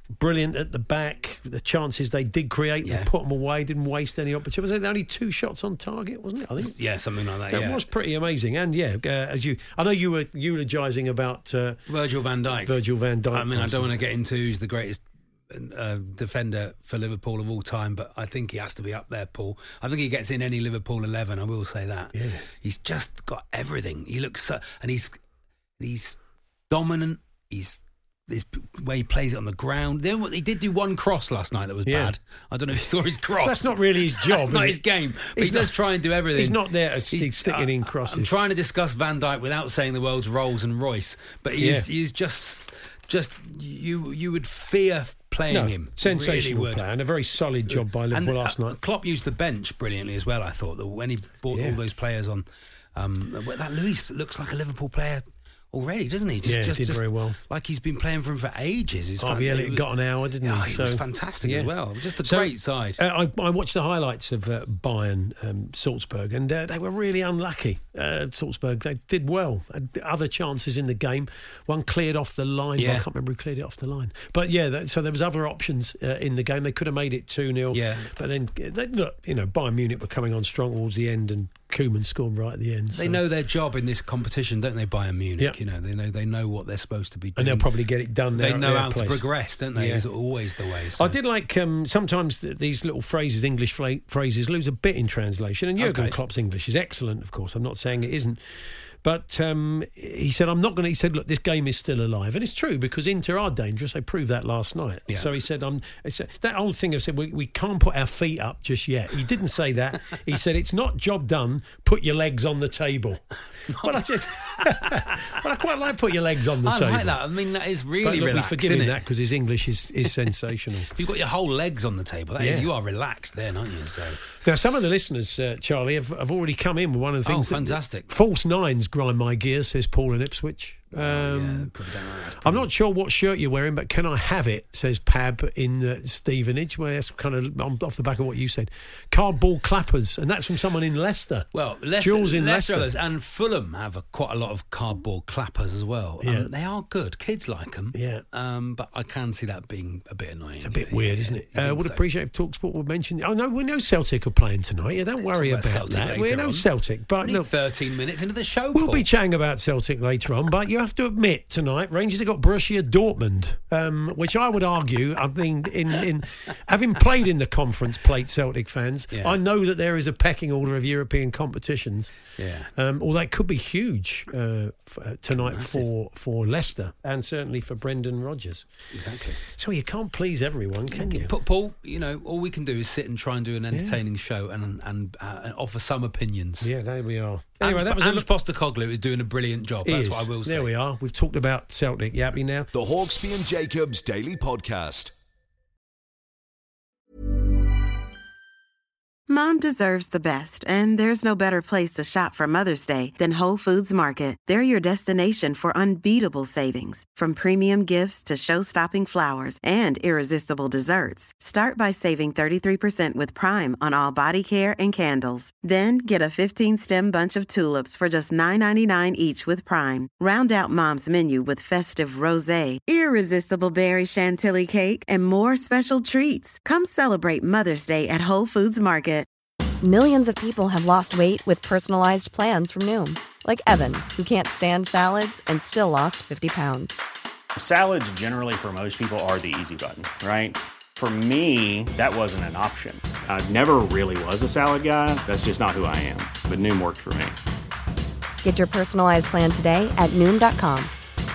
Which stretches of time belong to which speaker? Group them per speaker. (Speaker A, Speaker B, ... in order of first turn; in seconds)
Speaker A: 0.2-6.8, 7.5-11.8, 12.6-14.0, 22.1-22.4, 31.9-32.1, 33.4-34.8, 35.3-35.8, 36.3-38.3, 41.6-41.9, 45.5-48.8, 51.5-51.8, 56.4-57.4, 59.2-83.2, 87.4-90.1, 91.0-117.2, 118.0-120.9, 122.4-122.7, 124.4-131.7, 132.4-142.9, 146.2-146.5, 147.9-148.2, 150.6-157.5, 158.7-172.1, 172.8-178.7, 179.4-181.3, 183.7-184.0, 186.6-188.3, 189.8-192.7
Speaker B: 2.8-3.1, 6.6-7.8, 11.9-12.8, 13.3-25.1, 25.8-26.2, 26.7-46.8, 47.7-59.8, 60.4-63.0, 72.8-73.0, 77.7-78.1, 82.9-87.7, 88.3-91.2, 95.8-96.2, 113.7-115.3, 116.6-119.0, 120.9-124.2, 127.2-128.1, 130.9-132.7, 141.5-152.0, 155.3-156.7, 157.2-159.1, 172.4-172.7, 175.4-175.9, 178.9-179.4, 180.9-186.7, 187.6-190.7
Speaker C: 192.7-195.2
Speaker D: 199.3-229.3
Speaker E: 229.8-237.0, 248.4-250.9
Speaker F: 237.6-247.4